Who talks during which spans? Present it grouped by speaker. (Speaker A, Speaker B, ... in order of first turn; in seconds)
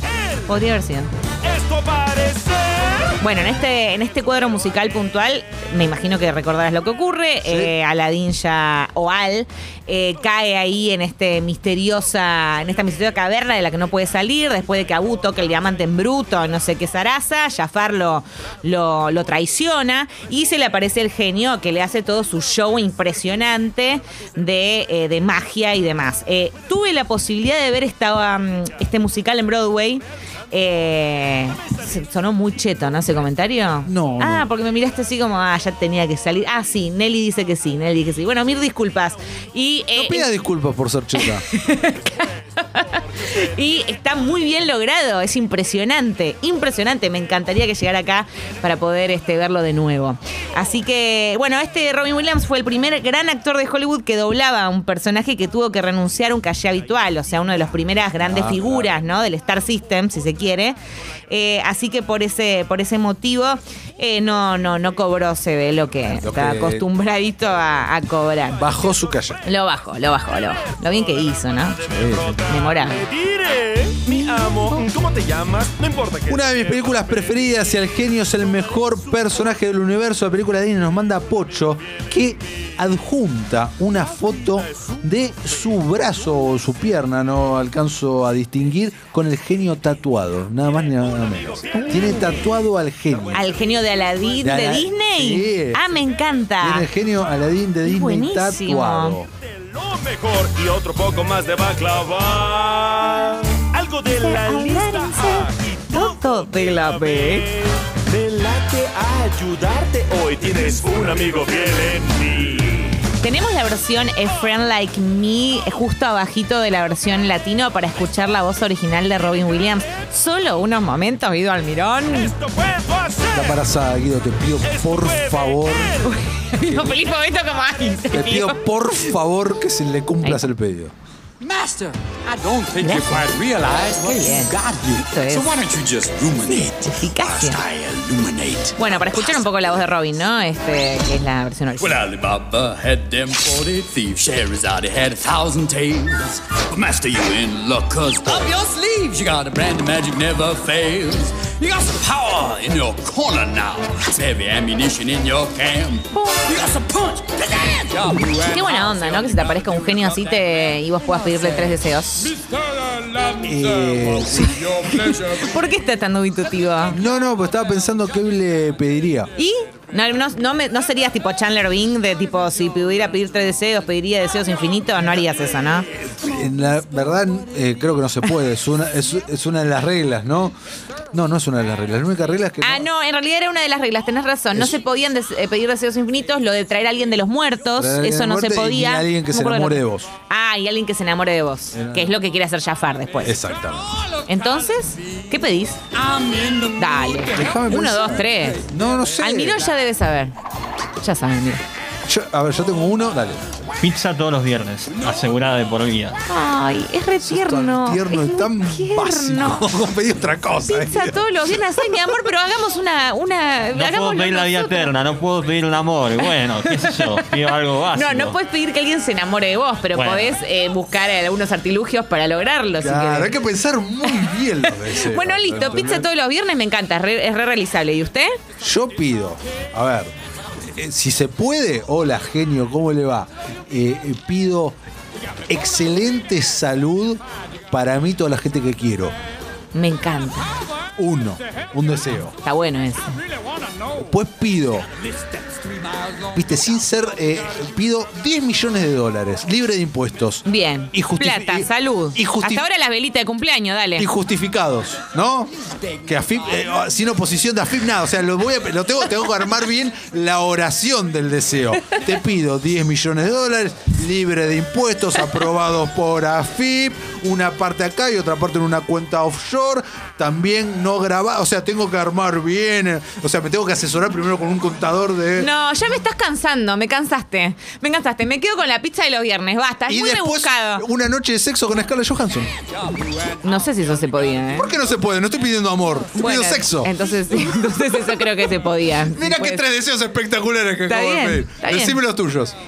Speaker A: 0.5-1.1, 3.2-40.3, 41.1-60.8, 61.3-68.6, 69.4-71.8, 72.5-73.0, 91.8-92.3, 93.3-96.9, 97.8-99.2, 104.0-107.5, 113.2-122.3, 126.0-128.6, 132.8-133.3, 134.0-134.5, 135.1-135.5, 137.0-137.6, 138.8-142.0, 158.3-162.3, 164.3-167.0, 169.4-175.9, 182.6-193.4, 194.3-195.8, 196.8-198.6, 199.2-200.3, 201.0-201.6, 206.3-209.7, 210.7-214.9, 216.2-217.2, 217.9-223.3, 224.1-228.4, 239.7-240.5, 242.4-243.1, 250.4-254.1, 275.4-280.8, 283.4-284.7, 286.1-289.6, 290.9-292.0
Speaker B: 1.4-3.1, 71.8-77.3, 99.4-112.9, 122.3-123.6, 124.6-126.1
Speaker C: 7.4-7.7, 33.9-34.5, 39.9-41.5, 58.2-58.9, 66.2-66.8, 68.6-69.4, 71.9-72.4, 76.3-93.5, 94.4-95.8, 96.6-99.3, 123.3-126.0, 128.1-130.9, 163.4-164.6, 166.9-169.3, 176.0-180.5, 181.1-182.8, 187.8-190.1, 191.7-192.2, 193.2-193.8, 197.3-199.7, 202.1-203.6, 207.2-212.0, 222.8-226.1, 228.6-230.1, 230.6-234.8, 235.5-239.1, 241.0-242.3, 243.9-244.9, 246.3-252.7, 254.0-255.5, 256.0-275.5, 279.9-282.5, 284.5-286.9, 289.1-292.6
Speaker D: 131.4-139.5, 141.8-159.0, 162.9-163.4, 196.0-196.9
Speaker E: 203.8-206.2, 213.7-218.4, 219.9-220.4